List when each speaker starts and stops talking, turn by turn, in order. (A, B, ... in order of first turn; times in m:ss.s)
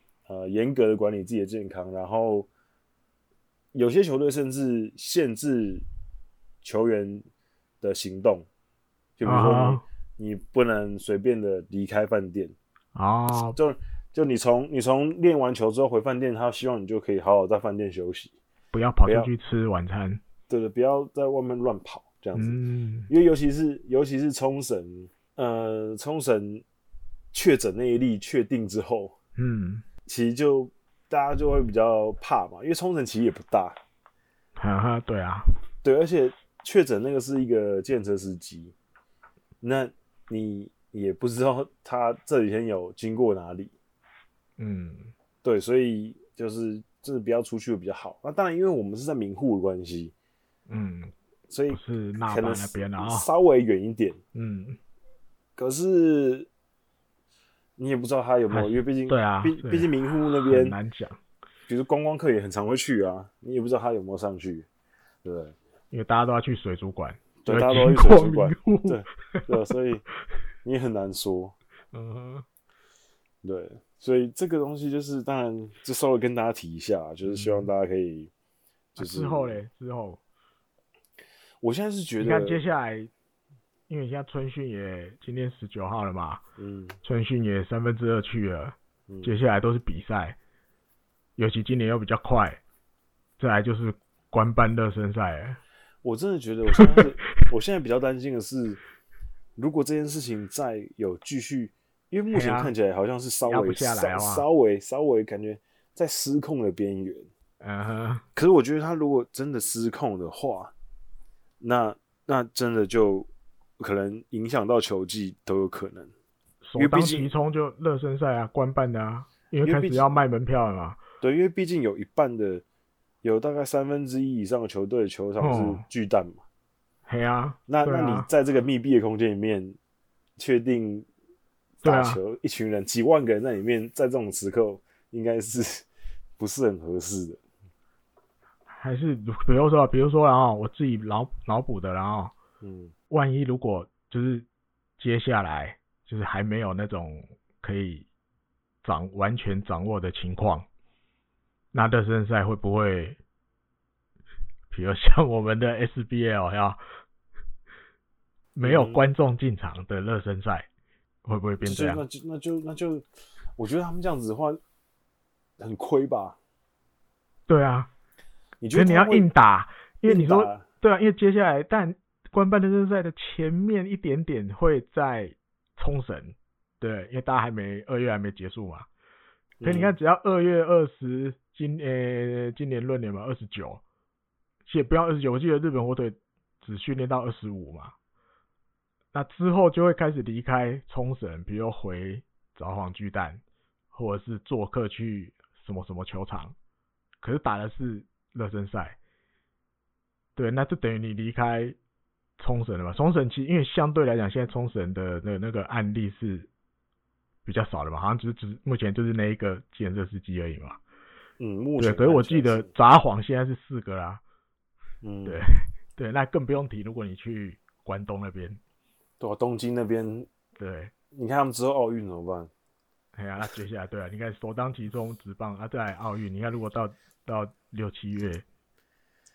0:00.3-0:02.5 A
0:03.7-0:05.8 A
0:06.6-0:07.2 A
0:07.8-0:08.5 A
0:09.2-0:12.6 A
0:09.2-0:09.8 B
0:13.0-0:13.6 B
0:13.5-0:18.3 A
0:18.7-0:20.2 B
0:19.0-0:19.3 A
0:20.5-0:22.6 A
0:22.4-0:23.1 B
0:23.1-0:26.6 A
0:27.3-0:29.2 A
0:29.4-0:29.8 B
0:30.1-0:33.8 A
0:34.6-0:35.5 B
0:35.8-0:38.7 A
0:39.6-0:43.7 A
0:44.6-0:45.1 B
0:45.4-0:50.1 A
0:50.7-0:51.1 B
0:51.5-0:54.2 A
0:51.7-0:53.3 B
0:54.3-0:54.8 B
0:55.6-0:56.5 A
0:57.8-1:00.8 A
0:58.5-1:01.2 B
1:01.7-1:04.7 A
1:05.2-1:05.6 A
1:05.9-1:09.5 B
1:07.4-1:10.0 A
1:10.6-1:11.6 A
1:11.9-1:12.4 B
1:13.4-1:18.3 A
1:17.3-1:17.7 B
1:19.0-1:19.6 A
1:19.0-1:20.2 B
1:21.6-1:22.6 A
1:22.2-1:23.1 B
1:23.9-1:26.4 B
1:26.6-1:27.0 A
1:27.0-1:30.4 B
1:29.1-1:29.4 A
1:31.4-1:32.6 B
1:33.4-1:35.6 B
1:36.0-1:38.8 A
1:36.8-1:37.0 B
1:39.6-1:47.3 A
1:42.3-1:42.7 B
1:43.5-1:44.4 B
1:47.6-1:48.2 B
1:48.4-1:50.7 A
1:51.6-1:53.3 A
1:53.8-1:56.1 A
1:56.6-2:01.0 B
1:56.8-1:57.3 A
1:59.6-2:00.1 A
2:01.2-2:02.6 A
2:03.2-2:06.4 A
2:05.4-2:05.8 B
2:07.1-2:08.3 B
2:07.7-2:09.8 A
2:10.4-2:11.1 A
2:11.8-2:15.9 A
2:11.8-2:12.2 B
2:16.4-2:17.4 A
2:18.7-2:22.3 B
2:22.6-2:22.9 A
2:23.1-2:24.5 B
2:25.0-2:28.1 B
2:28.8-2:30.7 B
2:31.7-2:33.2 B
2:34.7-2:36.8 B
2:38.6-2:40.7 B
2:38.6-2:39.0 A
2:41.2-2:42.0 B
2:41.6-2:43.0 A
2:43.6-2:44.6 A
2:45.6-2:46.4 A
2:47.5-2:47.9 B
2:48.6-2:49.3 A
2:48.7-2:58.9 B
2:50.0-2:50.6 A
2:59.6-3:00.0 A
2:59.6-3:03.8 B
3:04.7-3:07.9 B
3:09.1-3:16.6 B
3:17.2-3:19.0 B
3:20.4-3:21.8 B
3:22.4-3:26.5 B
3:27.4-3:30.8 B
3:31.4-3:32.7 A
3:31.8-3:34.2 B
3:35.0-3:35.4 A
3:35.2-3:38.6 B
3:39.2-3:40.3 A
3:40.6-3:40.9 B
3:41.1-3:42.5 A
3:43.2-3:48.4 B